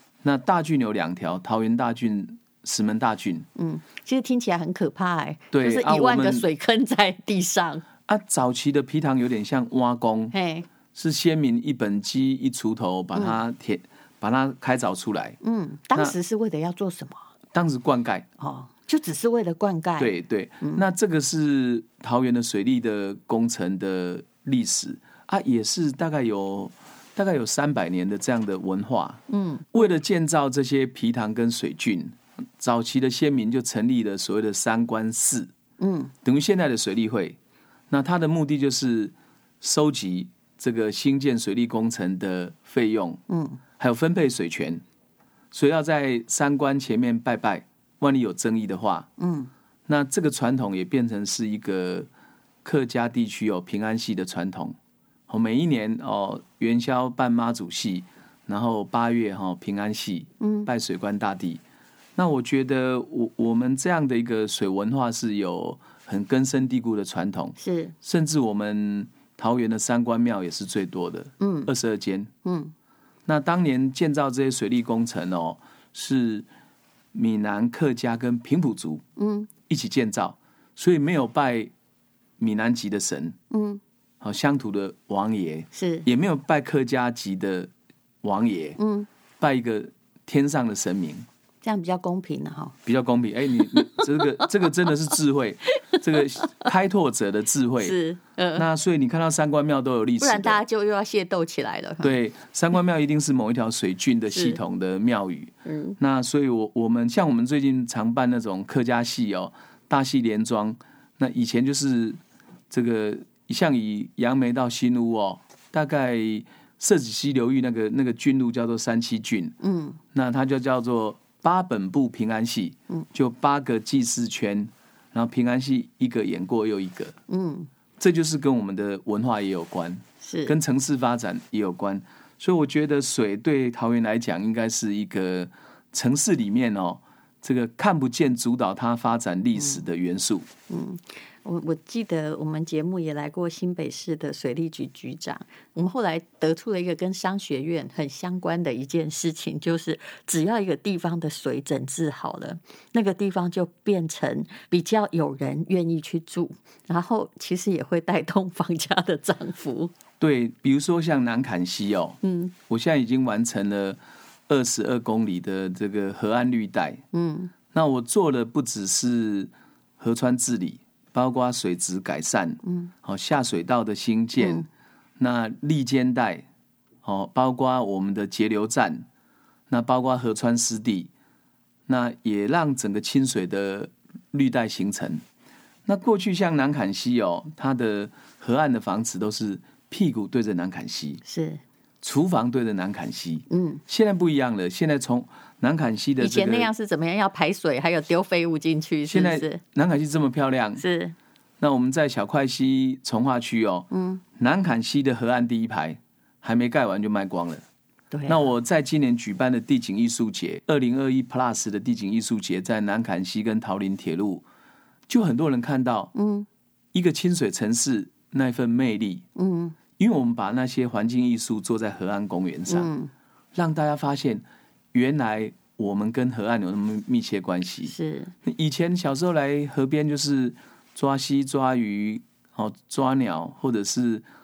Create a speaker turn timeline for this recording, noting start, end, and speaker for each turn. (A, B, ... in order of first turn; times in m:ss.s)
0:00.2-0:03.5 A
0:03.6-0:07.8 B
0:05.5-0:06.4 A
0:08.1-0:10.3 A
0:10.3-0:10.7 B
0:10.9-0:15.4 A
0:15.4-0:17.2 B
0:17.5-0:18.3 A
0:18.4-0:20.8 B
0:20.0-0:35.5 A
0:29.3-0:29.8 B
0:35.8-0:36.1 B
0:36.2-0:37.4 A
0:37.9-0:43.2 A
0:43.3-0:43.6 B
0:43.8-0:44.8 A
0:45.5-0:49.1 A
0:49.2-0:49.5 B
0:49.9-0:52.1 A
0:52.6-0:54.8 A
0:55.3-1:01.6 A
1:00.4-1:00.7 B
1:02.2-1:12.3 A
1:07.6-1:07.9 B
1:11.4-1:11.7 B
1:12.4-1:12.7 B
1:13.2-1:16.5 A
1:17.1-1:19.0 A
1:19.2-1:19.5 B
1:19.7-1:21.7 A
1:22.4-1:23.4 A
1:23.5-1:23.8 B
1:24.2-1:27.7 A
1:25.7-1:26.1 B
1:28.2-1:28.8 A
1:28.8-1:29.1 B
1:29.4-1:31.3 A
1:31.6-1:32.8 B
1:32.8-1:38.0 A
1:33.7-1:34.5 B
1:35.8-1:36.5 B
1:37.8-1:38.6 B
1:38.5-1:40.6 A
1:40.2-1:42.1 B
1:42.0-1:52.2 A
1:44.3-1:44.6 B
1:45.6-1:46.0 B
1:52.7-1:59.6 A
1:59.6-2:00.0 B
2:00.1-2:07.2 A
2:07.3-2:07.7 B
2:08.0-2:20.5 A
2:10.2-2:10.6 B
2:19.6-2:19.8 B
2:20.7-2:39.9 B
2:40.2-2:47.0 A
2:42.2-2:42.5 B
2:47.1-2:47.5 B
2:47.7-2:54.7 A
2:52.6-2:52.9 B
2:54.4-2:54.7 B
2:55.2-2:56.4 A
2:57.0-2:59.0 A
2:59.7-3:01.1 A
3:01.9-3:05.2 A
3:05.8-3:11.2 A
3:11.2-3:11.6 B
3:12.0-3:16.7 A
3:13.5-3:13.8 B
3:16.2-3:19.6 B
3:19.1-3:20.8 A
3:20.8-3:21.1 B
3:21.6-3:27.6 A
3:23.9-3:24.2 B
3:28.1-3:28.5 B
3:28.3-3:34.4 A
3:35.1-3:36.1 A
3:36.1-3:36.5 B
3:36.9-3:39.2 A
3:39.4-3:39.8 B
3:40.0-3:42.9 A
3:42.7-3:43.1 B
3:43.5-3:54.2 A
3:47.8-3:48.3 B